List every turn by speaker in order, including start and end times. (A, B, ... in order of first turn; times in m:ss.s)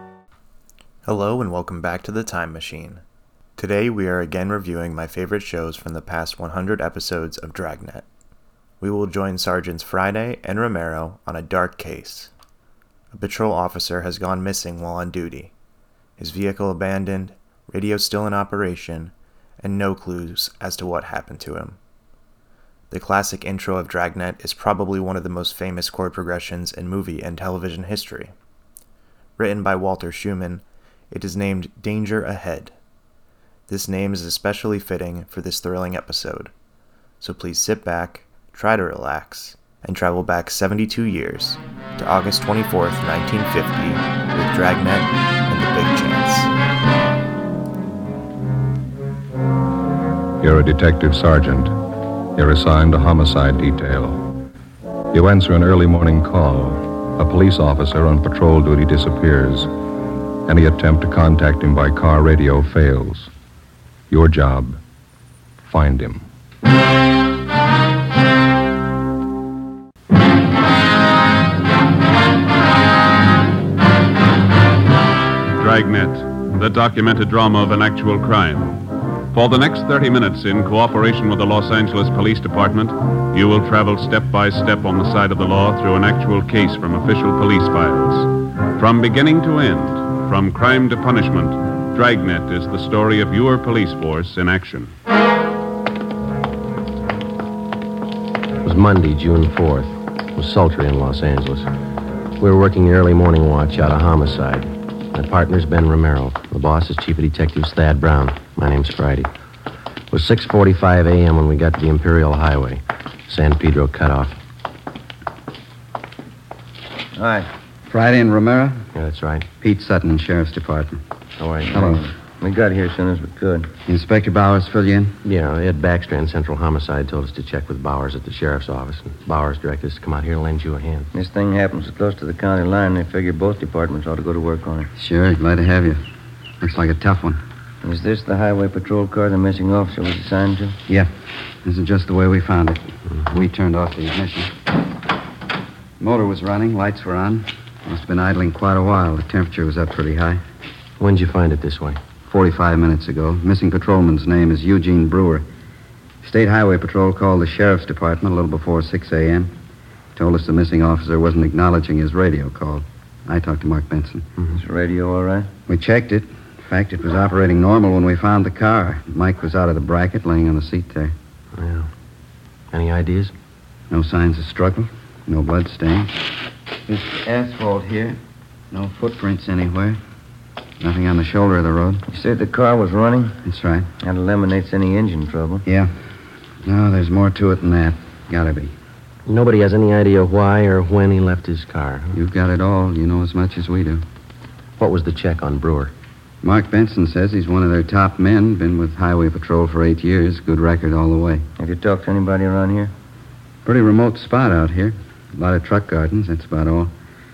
0:01.0-0:03.0 A
0:03.6-0:08.0 A
0:08.8-0:12.3 A
0:13.1-0:15.5 A
0:16.2-0:21.8 A
0:22.9-0:28.3 A
0:29.4-0:32.7 A
0:33.7-0:36.5 A
0:37.2-0:46.5 A
0:50.4-0:51.7 B
0:52.4-0:54.3 B
0:55.1-0:59.7 B
1:00.5-1:03.3 B
1:04.1-1:04.8 B
1:05.6-1:06.2 B
1:15.6-1:18.8 C
1:19.3-1:34.9 C
1:38.6-1:41.7 D
1:42.4-1:49.3 D
1:50.1-1:54.4 D
1:57.2-1:57.5 E
1:57.9-1:58.9 F
1:58.9-1:59.5 D
1:59.6-2:01.0 F
2:01.4-2:01.9 D
2:01.7-2:02.0 F
2:01.8-2:03.7 E
2:03.9-2:05.2 F
2:05.2-2:11.1 D
2:11.1-2:14.9 E
2:15.0-2:16.0 F
2:16.6-2:17.4 F
2:17.8-2:20.8 E
2:21.6-2:24.5 F
2:26.0-2:30.4 F
2:31.0-2:32.0 D
2:32.3-2:35.4 F
2:36.2-2:39.5 F
2:40.2-2:44.3 F
2:44.5-2:45.5 E
2:45.7-2:51.1 F
2:51.5-2:51.9 D
2:52.7-2:53.3 D
2:53.9-2:56.3 F
2:56.9-2:58.2 F
2:58.7-3:00.0 F
3:00.8-3:02.0 F
3:02.1-3:03.4 E
3:03.4-3:03.9 F
3:04.0-3:05.6 E
3:05.7-3:05.9 F
3:06.6-3:08.7 F
3:09.2-3:12.2 D
3:12.1-3:14.0 F
3:14.8-3:15.9 D
3:16.4-3:21.4 F
3:21.6-3:22.9 E
3:23.6-3:26.9 F